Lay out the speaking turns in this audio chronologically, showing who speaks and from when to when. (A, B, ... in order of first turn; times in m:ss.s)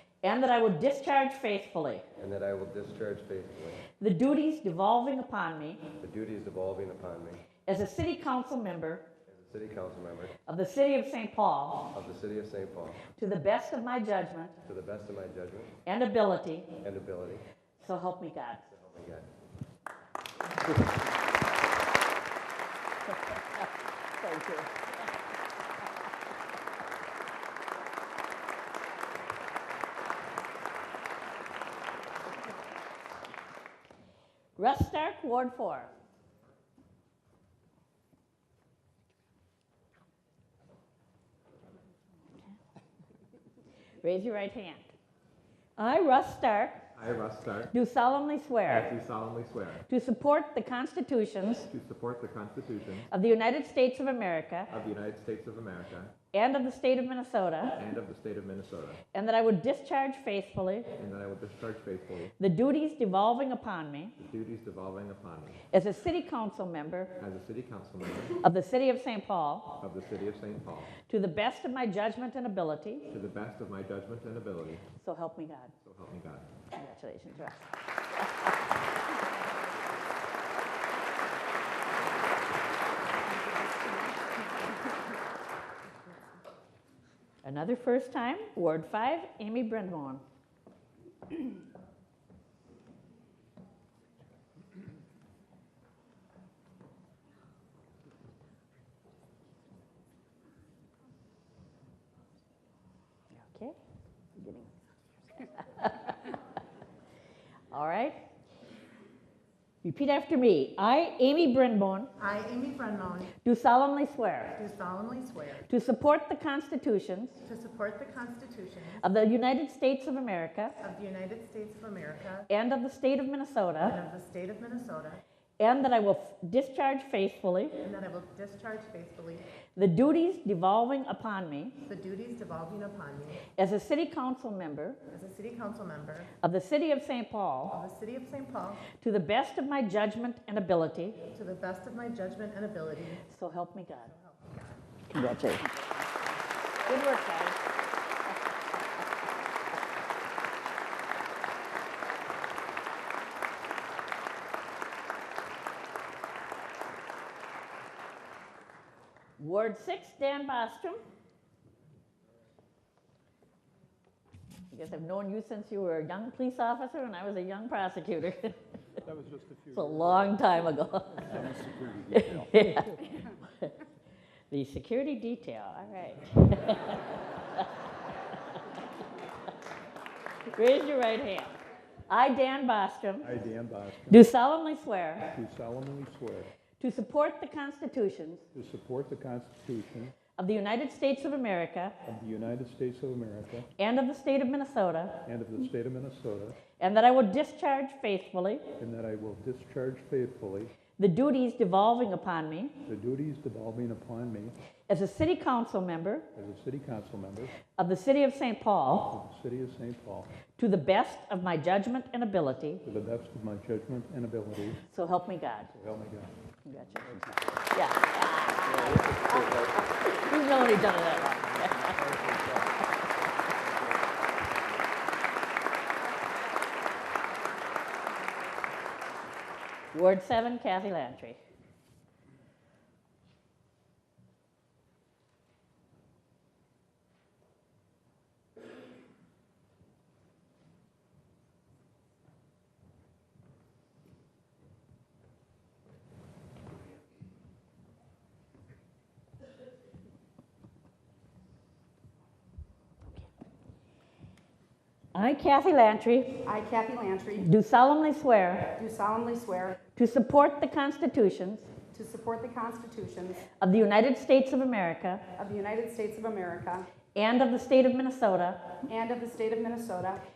0:00.2-0:02.0 A
0:02.2-0:03.8 B
0:04.0-0:05.8 A
0:06.0-0:07.5 B
0:07.7-0:09.1 A
0:09.3-0:10.4 B
0:10.5-0:11.9 A
0:11.9-0:13.0 B
0:13.1-0:14.6 A
0:14.6-0:15.7 B
0:15.8-0:16.7 A
0:16.8-0:17.4 B
0:17.8-0:18.6 A
0:18.7-0:19.3 B
0:23.2-0:24.9 A
0:34.6-0:35.9 A
0:44.0-0:44.9 A
0:45.8-0:46.8 A
0:47.0-0:47.7 C
0:47.7-0:48.9 A
0:48.7-0:49.8 C
0:49.9-0:51.7 A
0:51.7-0:53.1 C
0:53.1-0:54.7 A
0:54.7-0:56.1 C
0:56.3-0:57.8 A
0:57.8-0:59.0 C
0:59.1-1:00.9 A
1:01.0-1:02.3 C
1:02.4-1:04.1 A
1:04.2-1:05.6 C
1:05.7-1:07.1 A
1:07.2-1:08.4 C
1:08.4-1:09.8 A
1:09.8-1:10.9 C
1:11.0-1:13.1 A
1:13.1-1:14.9 C
1:15.0-1:15.7 A
1:15.8-1:16.5 C
1:16.8-1:17.7 A
1:27.4-1:30.2 A
1:43.3-1:43.8 A
1:44.4-1:44.7 A
1:45.3-1:46.3 A
1:47.7-1:48.2 A
1:49.8-1:52.1 A
1:52.2-1:53.3 D
1:53.4-1:54.6 A
1:54.6-1:55.7 D
1:55.7-1:57.4 A
1:57.4-1:59.0 D
1:59.0-2:00.8 A
2:00.8-2:02.5 D
2:02.5-2:04.0 A
2:03.8-2:05.2 D
2:05.6-2:07.8 A
2:07.8-2:09.5 D
2:09.8-2:11.8 A
2:11.8-2:13.4 D
2:13.6-2:15.0 A
2:15.1-2:16.3 D
2:16.4-2:17.8 A
2:17.7-2:18.9 D
2:18.9-2:21.2 A
2:21.3-2:23.2 D
2:23.3-2:24.1 A
2:24.1-2:24.8 D
2:25.1-2:25.6 A
2:26.8-2:27.6 A
2:39.4-2:41.0 A
2:44.7-2:48.5 A
2:49.0-2:50.4 E
2:49.7-2:51.4 A
2:51.2-2:52.5 E
2:52.1-2:53.7 A
2:54.5-2:57.2 A
3:00.5-3:01.5 A
3:02.1-3:03.3 A
3:03.2-3:04.2 E
3:04.1-3:05.3 A
3:05.3-3:06.5 E
3:06.8-3:08.4 A
3:08.5-3:10.2 E
3:10.4-3:11.9 A
3:12.0-3:13.7 E
3:13.8-3:15.2 A
3:15.2-3:16.6 E
3:16.8-3:18.7 A
3:18.8-3:20.8 E
3:21.0-3:22.8 A
3:22.8-3:24.6 E
3:24.9-3:26.2 A
3:26.3-3:27.6 E
3:27.8-3:29.1 A
3:29.1-3:30.3 E
3:30.6-3:32.8 A
3:32.8-3:34.8 E
3:34.8-3:35.7 A
3:35.7-3:36.3 E
3:36.7-3:42.0 A
3:37.1-3:37.4 E
3:38.8-3:39.3 C
3:41.8-3:42.8 E
3:49.9-3:51.4 A
4:15.1-4:16.4 A
4:16.4-4:17.5 F
4:17.4-4:18.8 A
4:18.8-4:19.8 F
4:19.9-4:21.7 A
4:21.9-4:23.4 F
4:23.6-4:25.2 A
4:25.4-4:26.9 F
4:27.1-4:28.6 A
4:28.9-4:30.2 F